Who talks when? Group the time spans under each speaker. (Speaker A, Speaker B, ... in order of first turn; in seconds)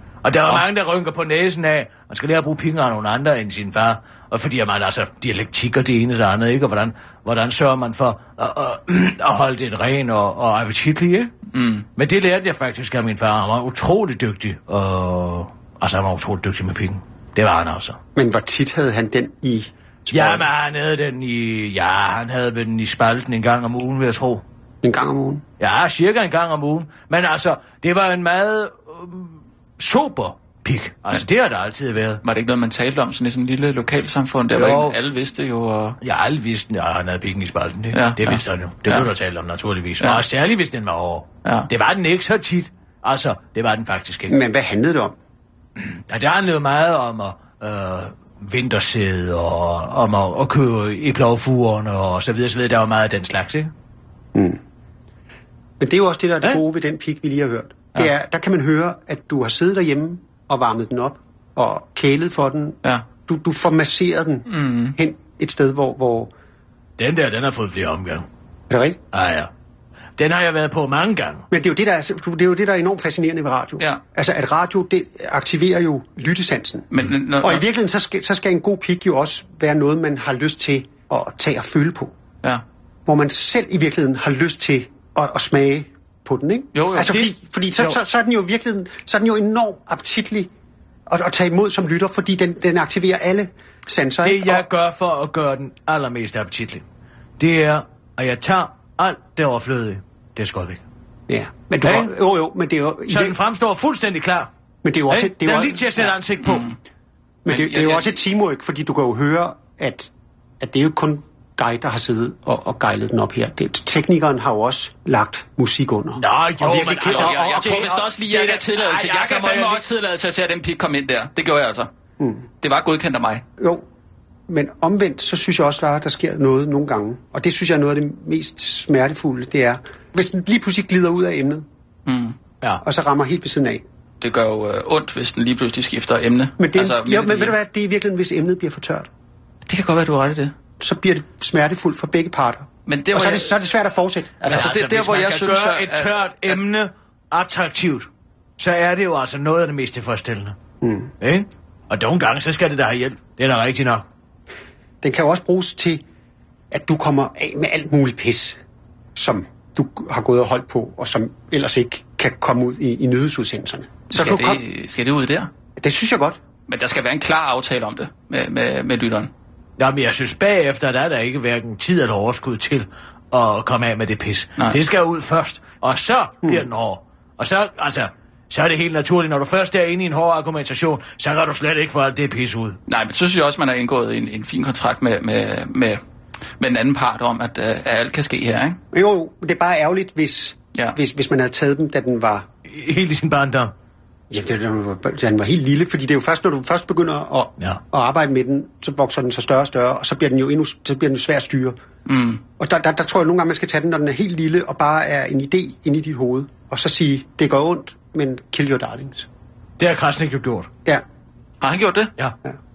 Speaker A: 0.2-11.3, 11.9-18.0, 20.1-24.4, 25.6-32.2, 34.5-35.0, 36.0-44.4, 45.8-53.7, 67.0-68.2, 69.1-69.5, 70.2-71.4, 87.0-88.0, 94.2-96.8, 97.4-100.8, 101.8-102.1, 103.1-104.5, 105.1-106.7, 116.2-119.8, 144.4-150.6, 151.2-154.0, 169.8-182.8, 192.7-193.7, 209.8-210.7
Speaker B: 11.5-11.8, 32.2-36.0, 37.9-39.1, 64.5-65.0, 76.9-77.6, 86.7-87.2, 106.4-106.8, 107.5-108.2, 117.0-121.9, 122.6-123.4, 132.1-132.3, 134.2-137.6, 139.7-140.5, 142.9-143.6, 144.5-146.6, 164.1-165.5, 166.7-169.3, 182.9-186.0, 186.6-188.8, 202.1-202.4, 211.6-212.1
Speaker C: 18.1-20.5, 24.8-25.4, 44.3-45.1, 54.3-54.6, 55.8-66.3, 68.7-69.0, 71.5-82.1, 83.0-90.5, 91.1-94.6, 101.3-103.3, 104.8-106.1, 107.4-117.8, 122.2-122.5, 123.6-123.8, 124.5-131.7, 132.8-133.8, 136.6-139.1, 140.8-144.7, 150.8-151.1, 155.0-156.0, 156.7-158.6, 159.2-164.6, 165.8-166.4, 188.9-192.5, 194.3-201.8, 202.6-209.3